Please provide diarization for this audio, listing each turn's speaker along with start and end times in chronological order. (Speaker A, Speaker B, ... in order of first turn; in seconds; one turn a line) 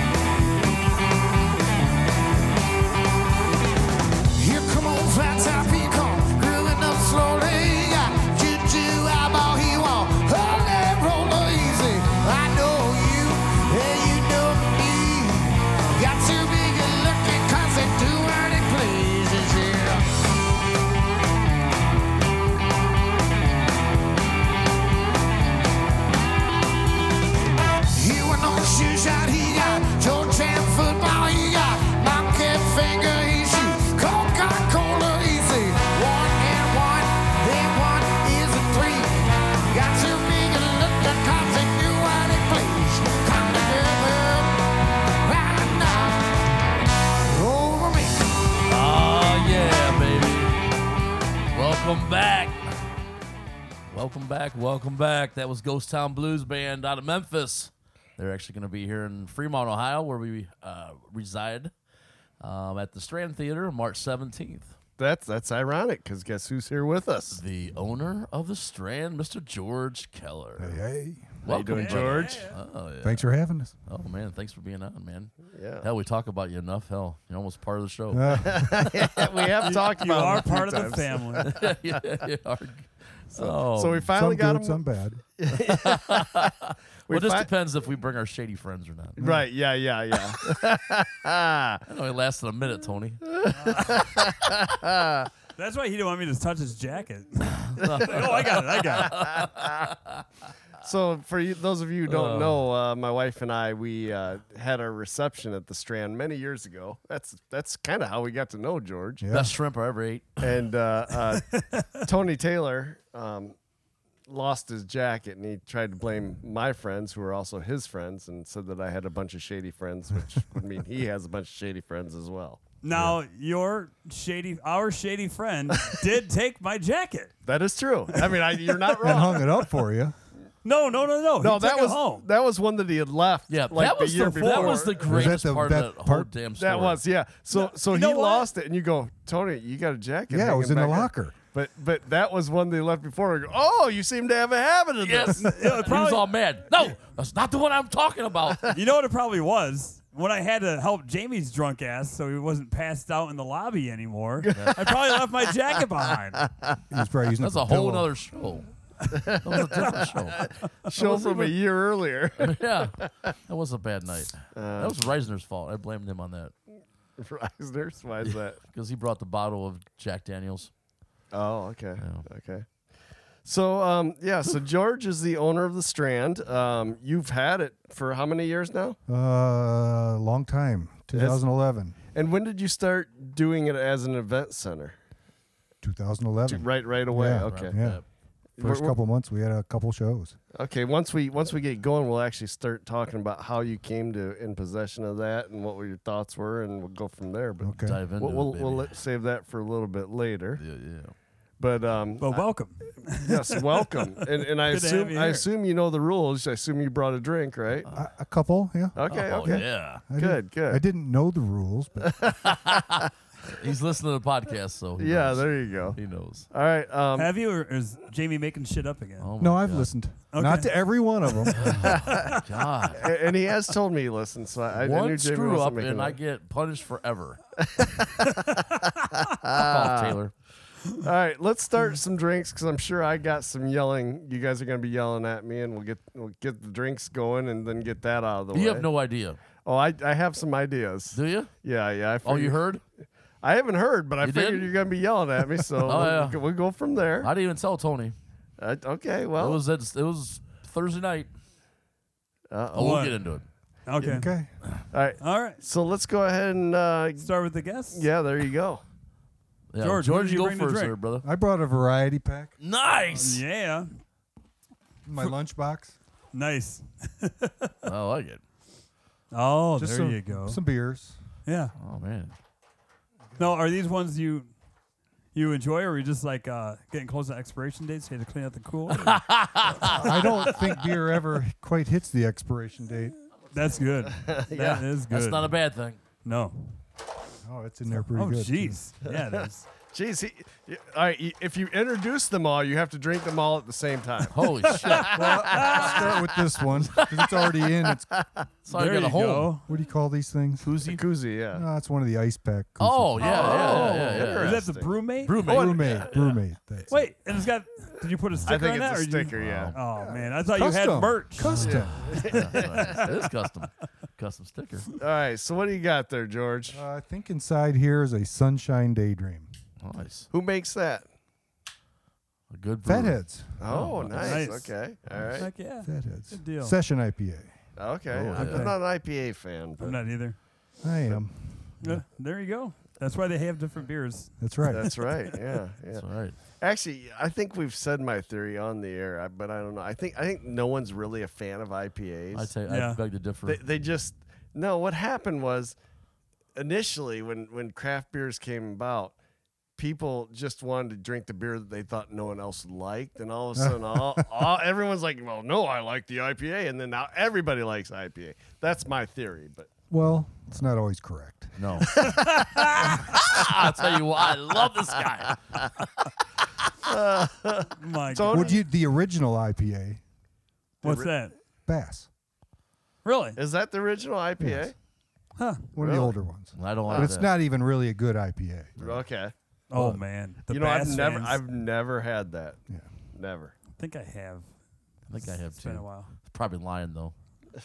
Speaker A: 4.3-20.1
Speaker A: 27.9-44.6
Speaker A: 45.2-46.4
Speaker A: 47.3-48.2
Speaker B: 48.7-50.6
Speaker B: 51.5-52.7
Speaker B: 53.9-61.7
Speaker B: 62.4-64.7
Speaker C: 65.0-67.4
Speaker B: 67.3-70.8
Speaker D: 70.6-71.4
Speaker B: 71.4-78.9
Speaker C: 71.5-72.5
Speaker E: 71.7-72.6
Speaker D: 73.0-73.7
Speaker C: 75.5-75.9
Speaker D: 78.1-78.8
Speaker C: 78.4-82.3
Speaker E: 79.6-81.5
Speaker B: 81.4-84.1
Speaker C: 83.3-84.8
Speaker D: 84.1-85.2
Speaker C: 85.4-86.5
Speaker B: 85.5-89.2
Speaker C: 87.1-87.5
Speaker D: 89.2-89.5
Speaker C: 89.2-91.8
Speaker B: 91.9-93.2
Speaker C: 93.3-95.3
Speaker E: 93.5-94.0
Speaker E: 95.6-99.1
Speaker B: 97.6-100.2
Speaker C: 99.0-99.8
Speaker C: 100.8-109.3
Speaker B: 102.0-102.6
Speaker D: 109.2-109.5
Speaker B: 109.3-110.5
Speaker C: 110.4-113.6
Speaker E: 111.5-111.9
Speaker C: 114.3-122.6
Speaker E: 122.8-127.4
Speaker C: 127.5-129.5
Speaker E: 128.2-128.7
Speaker D: 129.0-130.2
Speaker E: 130.6-132.3
Speaker C: 131.4-135.4
Speaker B: 133.5-137.0
Speaker E: 134.4-134.8
Speaker D: 135.0-136.3
Speaker C: 136.6-145.5
Speaker E: 137.5-138.5
Speaker D: 140.3-141.4
Speaker B: 145.0-148.8
Speaker E: 145.4-146.3
Speaker E: 148.7-156.4
Speaker C: 154.4-155.0
Speaker B: 154.5-154.8
Speaker D: 156.9-158.1
Speaker B: 157.4-158.7
Speaker C: 159.1-163.1
Speaker B: 159.3-161.6
Speaker B: 162.4-166.5
Speaker C: 164.5-165.0
Speaker C: 167.2-168.6
Speaker B: 168.3-170.7
Speaker C: 171.3-172.7
Speaker B: 172.0-172.2
Speaker C: 173.4-179.0
Speaker D: 179.1-182.0
Speaker C: 181.1-181.4
Speaker C: 182.1-185.0
Speaker D: 185.8-188.0
Speaker C: 186.5-187.8
Speaker B: 187.5-188.0
Speaker C: 188.6-188.9
Speaker D: 188.6-190.4
Speaker C: 190.5-200.6
Speaker D: 197.6-198.0
Speaker B: 197.8-198.9
Speaker B: 200.6-201.1
Speaker C: 201.6-202.4
Speaker E: 202.2-205.5
Speaker C: 203.0-207.9
Speaker D: 207.9-212.1
Speaker C: 209.0-210.8
Speaker B: 209.0-210.0
Speaker C: 212.0-213.1
Speaker B: 212.7-216.5
Speaker C: 215.0-216.0
Speaker C: 216.5-217.3
Speaker E: 217.2-219.3
Speaker B: 219.2-219.9
Speaker D: 219.4-221.8
Speaker E: 220.3-220.7
Speaker E: 221.5-222.4
Speaker B: 221.5-223.1
Speaker C: 222.9-226.2
Speaker B: 224.8-227.4
Speaker C: 227.6-228.6
Speaker E: 228.5-228.8
Speaker C: 229.3-230.2
Speaker B: 229.4-230.3
Speaker C: 231.0-238.9
Speaker B: 238.5-239.4
Speaker C: 239.6-242.6
Speaker B: 241.1-241.5
Speaker B: 242.2-242.8
Speaker C: 243.4-247.3
Speaker B: 244.2-244.7
Speaker B: 245.8-246.4
Speaker B: 247.2-248.2
Speaker C: 248.6-249.6
Speaker B: 249.4-251.3
Speaker C: 252.5-253.1
Speaker B: 252.7-253.4
Speaker E: 252.8-253.2
Speaker E: 253.9-254.3
Speaker D: 254.1-254.5
Speaker C: 254.9-257.3
Speaker E: 255.2-255.6
Speaker E: 257.2-258.1
Speaker C: 257.9-258.8
Speaker B: 259.7-261.3
Speaker E: 259.8-260.9
Speaker D: 261.2-262.5
Speaker B: 262.6-263.4
Speaker E: 263.1-263.9
Speaker D: 265.1-265.9
Speaker E: 266.3-267.9
Speaker B: 267.9-268.4
Speaker E: 269.3-270.6
Speaker D: 269.8-271.1
Speaker E: 271.5-271.7
Speaker B: 271.8-272.3
Speaker E: 273.4-274.5
Speaker E: 275.3-279.2
Speaker B: 278.9-280.6
Speaker D: 279.8-283.1
Speaker C: 279.8-280.2
Speaker E: 283.5-285.6
Speaker C: 284.1-284.9
Speaker B: 285.1-286.0
Speaker E: 286.2-286.8
Speaker D: 287.4-288.8
Speaker E: 287.9-289.7
Speaker C: 289.8-296.3
Speaker B: 294.3-296.1
Speaker E: 294.7-296.0
Speaker D: 295.1-298.1
Speaker B: 296.9-297.6
Speaker C: 298.1-298.4
Speaker B: 298.6-299.5
Speaker E: 298.7-299.7
Speaker D: 299.7-300.7
Speaker B: 300.6-301.0
Speaker C: 300.9-301.6
Speaker D: 301.5-304.0
Speaker B: 302.8-304.6
Speaker C: 303.2-306.1
Speaker E: 303.2-305.4
Speaker B: 305.2-306.3
Speaker D: 305.4-307.1
Speaker E: 306.9-313.2
Speaker C: 308.5-309.7
Speaker B: 309.4-309.8
Speaker D: 310.0-312.4
Speaker C: 311.6-313.1
Speaker B: 311.6-314.9
Speaker C: 315.0-316.8
Speaker D: 316.7-319.5
Speaker B: 319.8-320.3
Speaker C: 320.3-321.1
Speaker B: 322.5-324.5
Speaker D: 322.9-323.7
Speaker C: 323.6-325.5
Speaker E: 324.2-324.7
Speaker E: 325.4-326.8
Speaker D: 325.6-327.5
Speaker C: 327.8-330.0
Speaker B: 328.1-328.7
Speaker E: 328.4-328.8
Speaker E: 329.8-330.4
Speaker D: 330.8-331.7
Speaker E: 331.8-335.3
Speaker D: 334.4-334.9
Speaker C: 334.7-342.5
Speaker B: 335.9-336.4
Speaker B: 342.3-343.6
Speaker E: 342.7-343.0
Speaker C: 343.5-345.8
Speaker C: 346.6-349.1
Speaker C: 349.8-359.7
Speaker D: 353.6-354.5
Speaker D: 359.9-362.0
Speaker B: 361.6-365.6
Speaker E: 361.8-363.2
Speaker C: 363.3-363.8
Speaker C: 366.8-368.6
Speaker E: 367.8-368.6
Speaker D: 368.3-370.0
Speaker E: 370.8-371.4
Speaker D: 371.7-372.1
Speaker E: 373.1-373.4
Speaker C: 373.4-374.8
Speaker D: 374.4-374.7
Speaker E: 375.4-375.7
Speaker D: 375.7-378.9
Speaker C: 375.8-376.2
Speaker B: 376.6-377.3
Speaker C: 376.9-377.1
Speaker C: 378.8-379.3
Speaker E: 379.7-381.4
Speaker D: 379.8-380.0
Speaker C: 380.5-382.6
Speaker C: 383.1-383.5
Speaker E: 383.8-384.5
Speaker B: 385.1-387.1
Speaker E: 385.2-386.1